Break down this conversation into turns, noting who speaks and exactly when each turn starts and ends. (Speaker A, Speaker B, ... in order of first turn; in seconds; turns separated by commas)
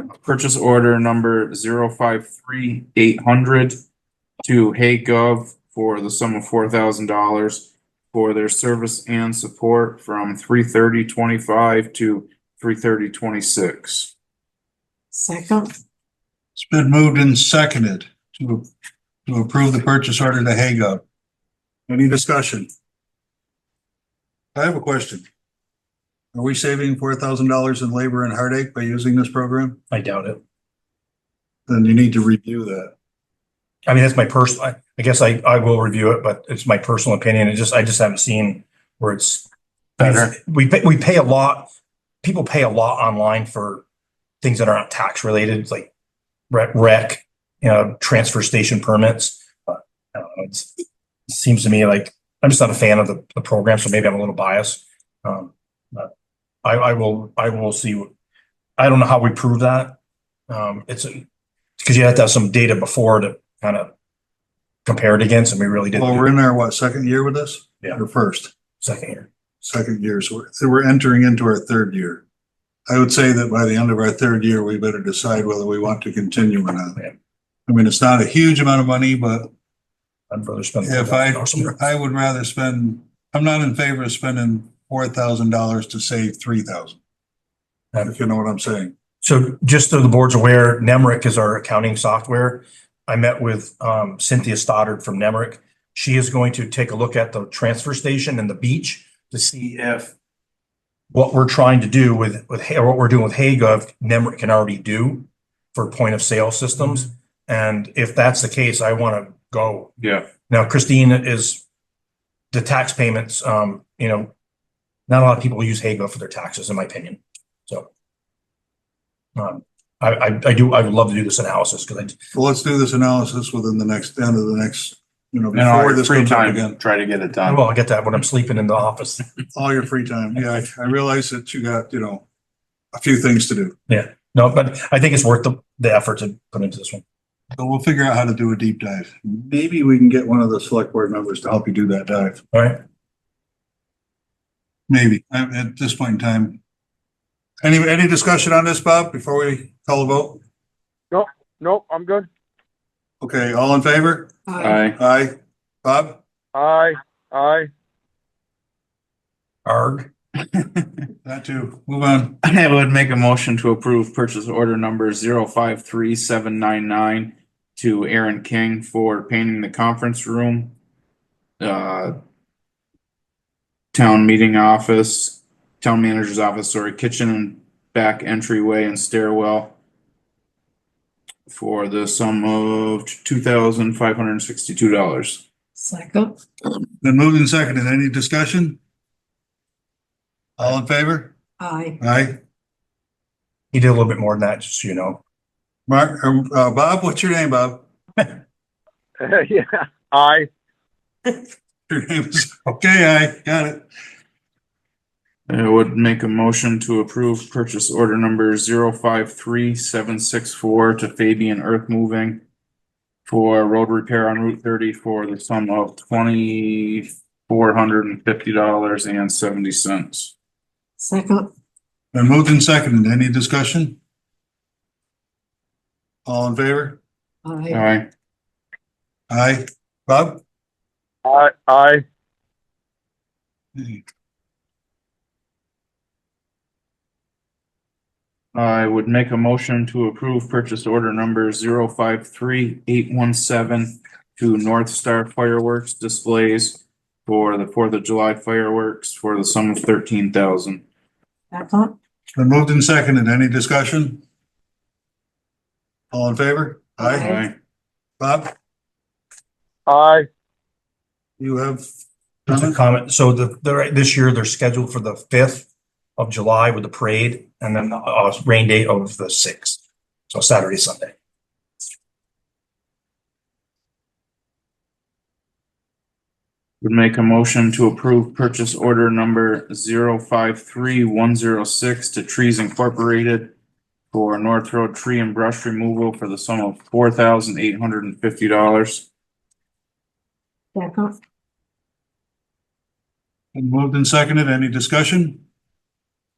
Speaker A: 0.1-3.8, Speaker A: 4.4-14.1, Speaker B: 15.1-15.7, Speaker C: 16.6-18.6, Speaker C: 19.3-21.0, Speaker C: 21.9-22.7, Speaker C: 24.5-25.2, Speaker C: 26.3-29.8, Speaker D: 29.9-30.4, Speaker C: 31.7-32.9, Speaker D: 33.9-39.5, Speaker A: 40.0-40.3, Speaker D: 40.0-41.7, Speaker D: 42.2-43.8, Speaker D: 44.4-45.9, Speaker D: 46.5-56.1, Speaker D: 56.6-58.1, Speaker D: 58.8-60.0, Speaker D: 60.5-61.2, Speaker D: 61.8-63.9, Speaker D: 64.8-66.3, Speaker C: 65.9-68.5, Speaker D: 68.8-69.3, Speaker C: 69.6-72.2, Speaker C: 72.9-77.0, Speaker C: 77.7-79.5, Speaker D: 80.3-81.7, Speaker C: 80.8-87.0, Speaker C: 88.0-88.9, Speaker D: 89.2-100.1, Speaker D: 101.1-111.6, Speaker A: 110.0-110.3, Speaker D: 112.5-114.3, Speaker D: 115.1-117.9, Speaker D: 119.3-122.2, Speaker C: 122.3-126.8, Speaker A: 125.5-127.6, Speaker D: 127.5-129.2, Speaker C: 129.5-132.2, Speaker C: 132.9-133.7, Speaker D: 133.9-137.0, Speaker C: 137.6-142.4, Speaker D: 142.5-142.8, Speaker C: 144.9-146.6, Speaker C: 147.6-150.4, Speaker E: 151.1-152.3, Speaker C: 153.2-154.3, Speaker B: 154.5-154.8, Speaker A: 154.6-155.0, Speaker C: 154.9-156.2, Speaker E: 156.5-157.7, Speaker D: 159.7-160.1, Speaker A: 160.5-160.9, Speaker C: 161.2-162.4, Speaker A: 162.4-170.7, Speaker A: 171.6-172.2, Speaker A: 173.9-179.7, Speaker A: 181.5-185.4, Speaker B: 185.8-186.4, Speaker C: 187.0-188.8, Speaker C: 190.6-191.3, Speaker B: 191.6-192.0, Speaker C: 192.0-192.4, Speaker D: 193.7-195.2, Speaker C: 195.9-197.8, Speaker E: 199.2-200.5, Speaker C: 201.9-203.8, Speaker A: 205.5-212.4, Speaker A: 213.2-220.3, Speaker B: 221.0-221.5, Speaker C: 222.1-224.0, Speaker C: 226.2-227.0, Speaker B: 227.4-227.8, Speaker A: 227.7-228.1, Speaker C: 229.3-230.4, Speaker E: 231.2-232.0, Speaker C: 233.8-234.0, Speaker A: 238.5-250.8, Speaker B: 251.5-251.9, Speaker C: 252.3-254.2, Speaker C: 256.1-257.3, Speaker A: 257.0-257.5, Speaker B: 257.0-257.4, Speaker C: 258.2-258.5, Speaker E: 259.9-260.3, Speaker C: 261.4-261.8, Speaker C: 262.4-262.8, Speaker D: 262.5-271.1, Speaker A: 276.8-283.5, Speaker A: 284.1-289.1, Speaker B: 290.7-291.1, Speaker C: 293.5-295.4